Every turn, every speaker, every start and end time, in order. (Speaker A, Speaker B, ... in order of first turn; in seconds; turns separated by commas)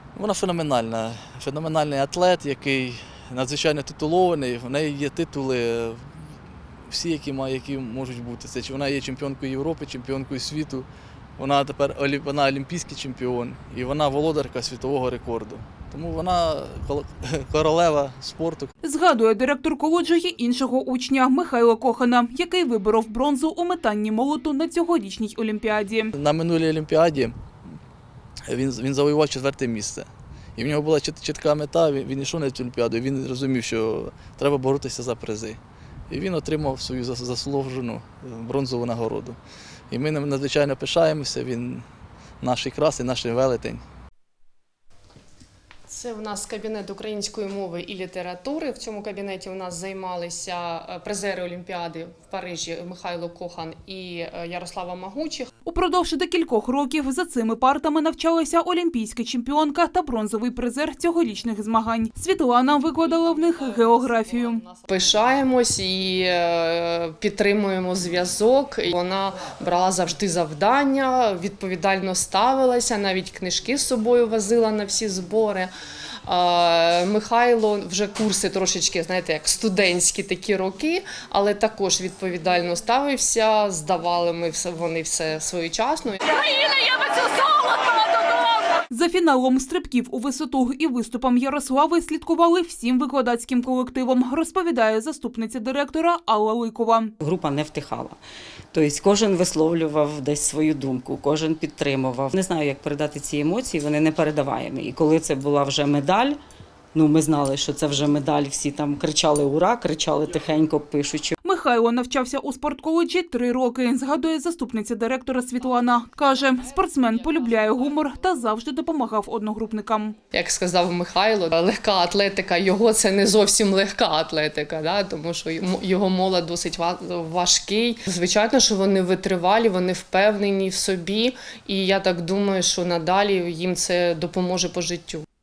Speaker A: 0.1-6.1, Speaker A: 6.9-10.9, Speaker A: 11.4-18.7, Speaker B: 18.8-26.1, Speaker A: 26.1-27.4, Speaker A: 28.5-39.4, Speaker A: 39.9-41.9, Speaker A: 42.4-43.8, Speaker C: 45.9-55.5, Speaker B: 55.7-64.6, Speaker C: 63.0-75.7, Speaker C: 76.3-87.0, Speaker B: 88.9-97.1, Speaker D: 97.2-98.2, Speaker D: 98.7-106.4, Speaker D: 106.9-111.3, Speaker B: 111.4-120.2, Speaker C: 116.2-118.3, Speaker C: 120.3-135.2